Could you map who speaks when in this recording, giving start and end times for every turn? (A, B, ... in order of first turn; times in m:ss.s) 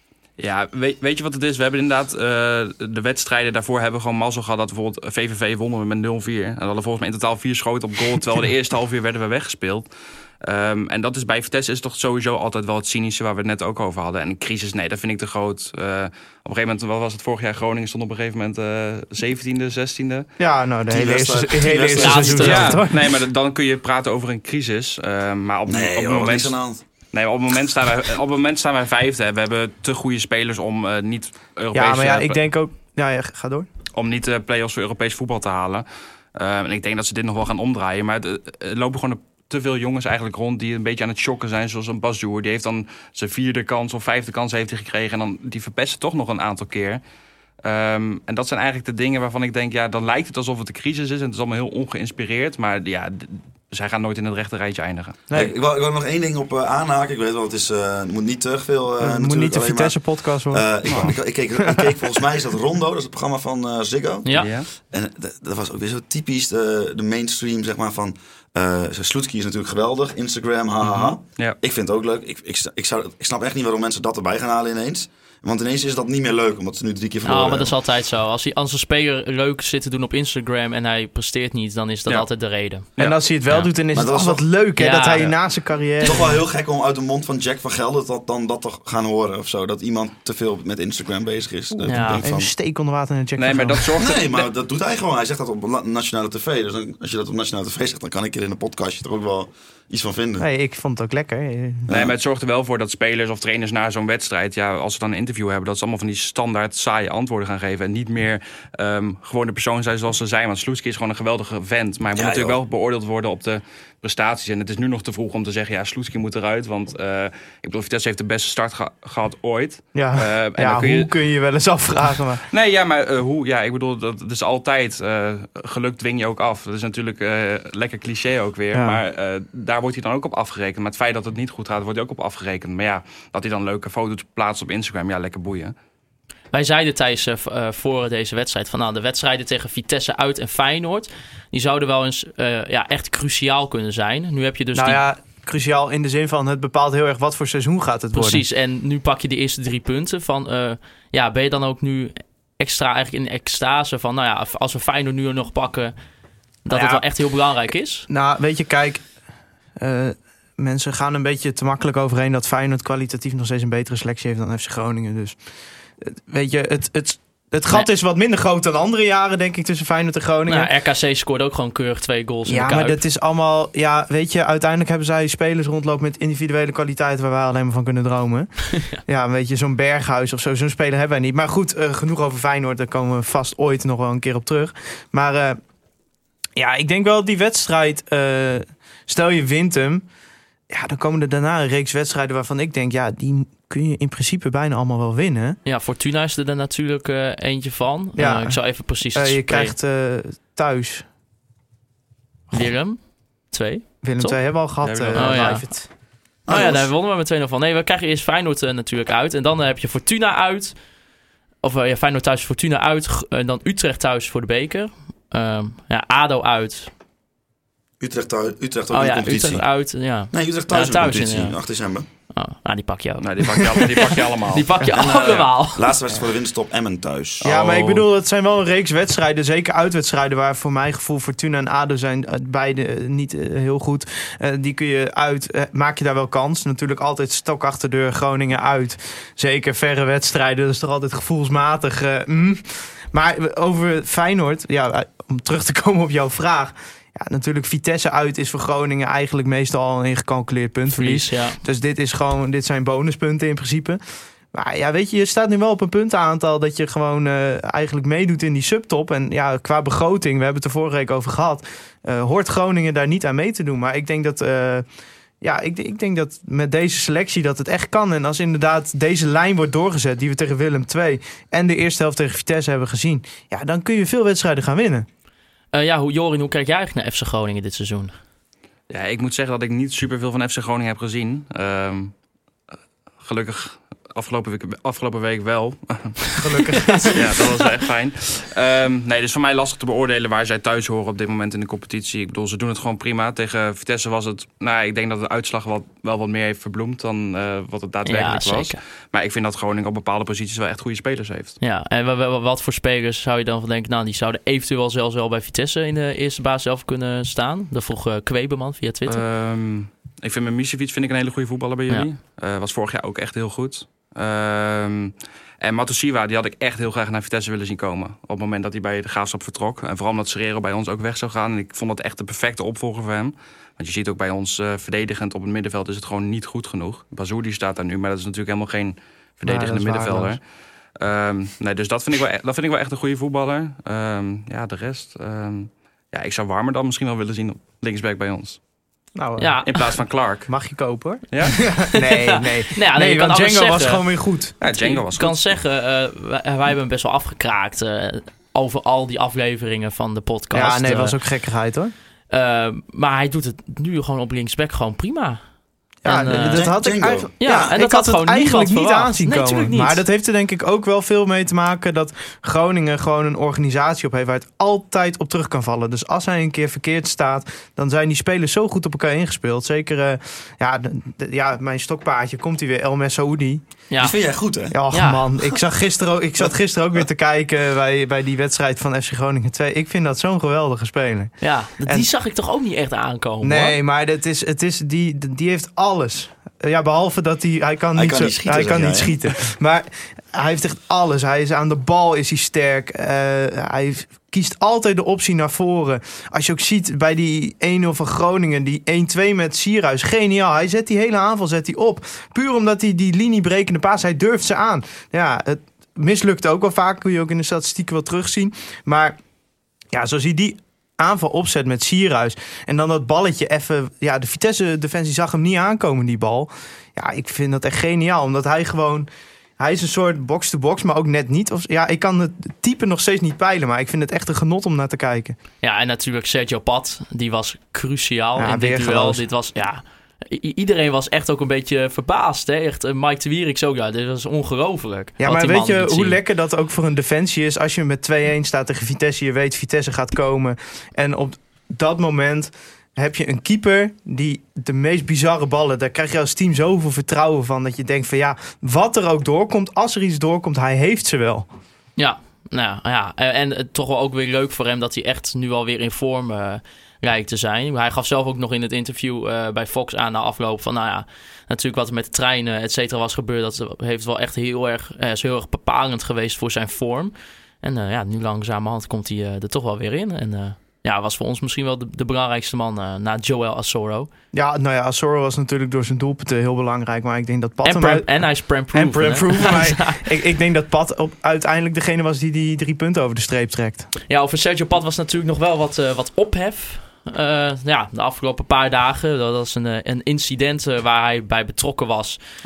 0:00.4-0:09.9 A
0:10.4-0:20.3 A
0:20.4-0:23.0 B
0:20.9-0:22.8 C
0:22.0-0:22.8 D
0:22.4-0:26.5 A
0:25.7-0:26.8 C
0:27.1-0:32.4 A
0:31.7-0:33.7 B
0:33.9-0:35.8 A
0:36.4-0:47.0 A
0:47.6-0:55.2 A
0:55.3-1:00.0 C
0:59.0-1:01.1 B
1:00.5-1:17.7 C
1:00.9-1:01.1 A
1:01.6-1:02.0 B
1:04.4-1:04.7 A
1:10.8-1:11.6 A
1:17.2-1:22.9 D
1:23.0-1:23.7 A
1:23.0-1:26.3 B
1:23.9-1:24.4 C
1:24.8-1:25.4 D
1:26.0-1:32.5 C
1:31.9-1:32.2 D
1:31.9-1:34.0 B
1:33.4-1:34.5 A
1:34.0-1:40.4 C
1:40.4-1:41.9 B
1:41.9-1:42.2 C
1:41.9-2:01.1 A
1:52.1-1:52.6 C
1:59.9-2:02.4 B
2:02.5-2:15.7 A
2:08.7-2:09.0 B
2:16.5-2:25.0 D
2:24.8-2:28.4 B
2:28.1-2:35.9 D
2:36.6-2:38.1 D
2:36.7-2:37.0 B
2:38.1-2:39.0 B
2:39.8-2:45.4 B
2:46.0-2:50.7 B
2:50.5-2:53.0 D
2:52.5-2:58.5 B
2:59.0-3:05.6 B
3:06.6-3:10.0 B
3:10.7-3:15.6 B
3:15.6-3:19.8 D
3:18.2-3:18.6 B
3:19.1-3:21.0 B
3:22.5-3:23.0 D
3:23.5-3:24.4 D
3:24.0-3:25.9 B
3:24.8-3:25.6 A
3:25.1-3:25.6 D
3:26.5-3:26.9 C
3:26.5-3:30.8 D
3:31.6-3:36.9 D
3:38.0-3:39.6 C
3:38.9-3:41.6 D
3:40.3-3:42.1 C
3:42.3-3:45.9 D
3:43.2-3:44.7 A
3:44.9-3:47.4 C
3:47.4-3:48.0 A
3:47.4-4:14.0 B
4:10.9-4:11.6 D
4:14.5-4:24.8 B
4:25.4-4:35.0 B
4:35.7-4:38.1 D
4:38.9-4:42.1 A
4:43.2-4:46.4 A
4:46.3-4:47.4 B
4:46.8-4:47.2 D
4:47.0-5:01.6 A
4:58.1-4:58.8 D
5:01.6-5:09.2 D
5:09.1-5:30.4 A
5:29.4-5:30.4 B
5:31.0-5:38.6 A
5:39.2-5:39.6 B
5:39.4-5:39.8 D
5:39.6-5:40.5 A
5:40.5-5:44.5 B
5:41.3-5:41.6 A
5:41.9-5:44.0 D
5:44.6-5:45.4 A
5:44.6-5:51.2 D
5:50.5-5:51.9 B
5:52.3-5:55.4 D
5:56.0-6:13.6 B
5:56.1-5:56.7 D
5:56.3-5:57.3 C
5:57.4-6:00.0 D
6:13.9-6:14.2 D
6:14.0-6:14.8 C
6:14.7-6:21.3 B
6:14.9-6:15.2 D
6:21.4-6:23.8 D
6:23.4-6:49.2 B
6:27.9-6:29.2 C
6:49.9-6:59.1 B
6:59.6-7:05.4 B
7:05.6-7:16.2 D
7:08.4-7:09.2 B
7:15.2-7:31.5 B
7:32.0-7:54.1 D
7:54.3-7:58.1 B
7:57.6-8:00.0 D
7:58.7-8:03.9 B
8:04.1-8:12.2 D